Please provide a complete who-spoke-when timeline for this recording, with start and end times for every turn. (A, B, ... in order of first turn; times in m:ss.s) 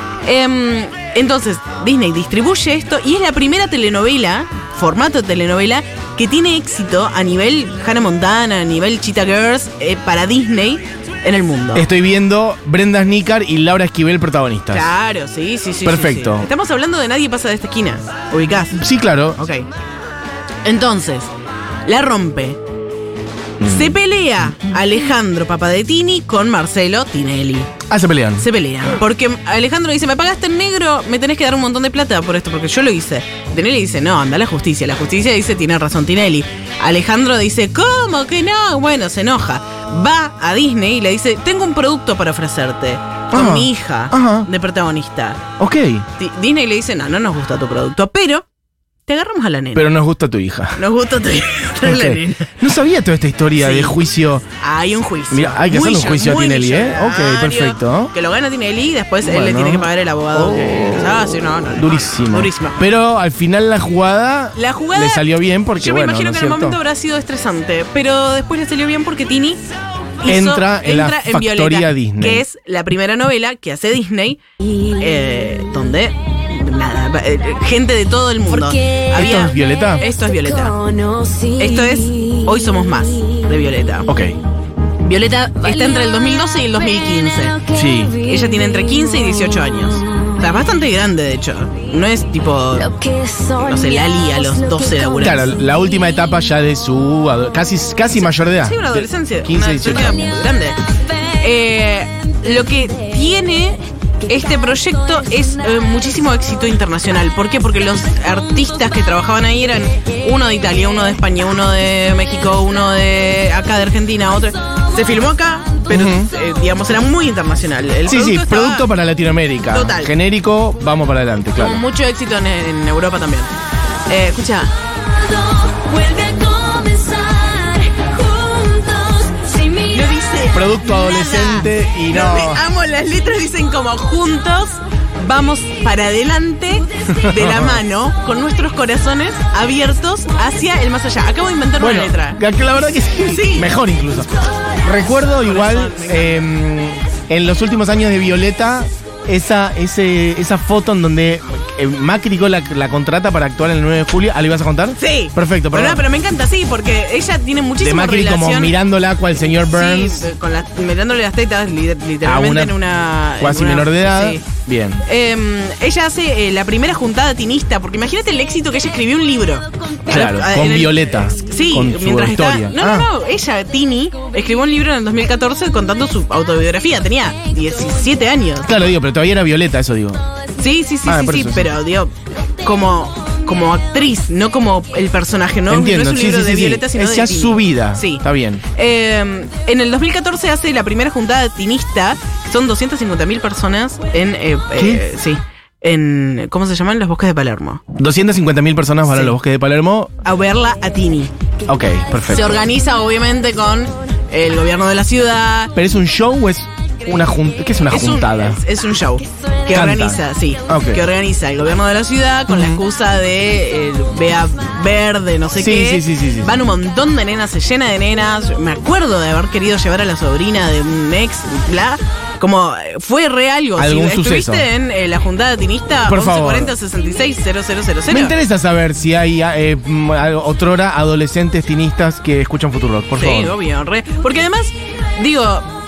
0:00.2-0:11.8 A
0:11.7-0:14.9 B
0:14.7-0:18.8 A
0:15.8-0:16.5 B
0:18.7-0:19.4 B
0:19.4-0:19.7 A
0:20.6-0:21.3 A
0:21.8-0:22.6 A
0:23.6-0:24.0 B
0:23.6-0:27.8 A
0:27.9-0:28.5 B
0:28.4-0:45.5 A
0:43.3-0:44.5 B
0:45.6-0:46.1 B
0:46.2-0:48.4 A
0:49.1-0:49.8 A
0:49.7-0:50.8 B
0:50.8-0:52.6 A
0:51.8-0:54.4 B
0:53.5-0:54.0 A
0:54.6-1:02.8 A
0:55.3-0:58.1 B
0:59.2-1:06.8 B
1:04.6-1:09.6 A
1:10.2-1:20.8 A
1:10.2-1:12.4 B
1:19.1-1:20.0 B
1:20.7-1:22.3 C
1:21.5-1:24.1 A
1:24.1-1:24.4 B
1:25.0-1:33.0 A
1:27.7-1:28.2 B
1:32.9-1:35.1 C
1:33.5-1:35.5 A
1:35.2-1:40.4 B
1:38.1-1:58.9 A
1:55.9-1:56.3 B
1:58.0-2:01.8 B
1:59.7-2:00.1 A
2:01.6-2:03.5 A
2:04.1-2:04.7 A
2:05.6-2:09.9 C
2:05.9-2:08.9 A
2:09.4-2:22.4 A
2:10.5-2:12.6 B
2:17.1-2:17.8 B
2:21.8-2:36.0 B
2:23.2-2:23.7 A
2:25.3-2:26.5 A
2:35.0-2:38.8 A
2:37.8-2:40.3 B
2:39.6-2:44.4 A
2:42.2-2:42.8 B
2:43.4-2:45.0 B
2:45.0-2:58.8 A
2:50.0-2:53.1 B
2:58.6-3:00.2 B
3:00.6-3:17.8 A
3:01.0-3:01.7 B
3:05.7-3:08.6 B
3:14.8-3:15.0 B
3:17.9-3:20.1 B
3:19.1-3:19.4 A
3:20.2-3:21.3 A
3:21.7-3:22.6 B
3:22.2-3:25.7 A
3:25.7-3:28.6 B
3:27.9-3:48.4 A
3:29.7-3:31.0 B
3:32.5-3:32.8 B
3:35.6-3:36.6 B
3:43.8-3:44.7 B
3:46.1-3:46.7 B
3:48.1-3:53.5 B
3:53.1-3:55.8 A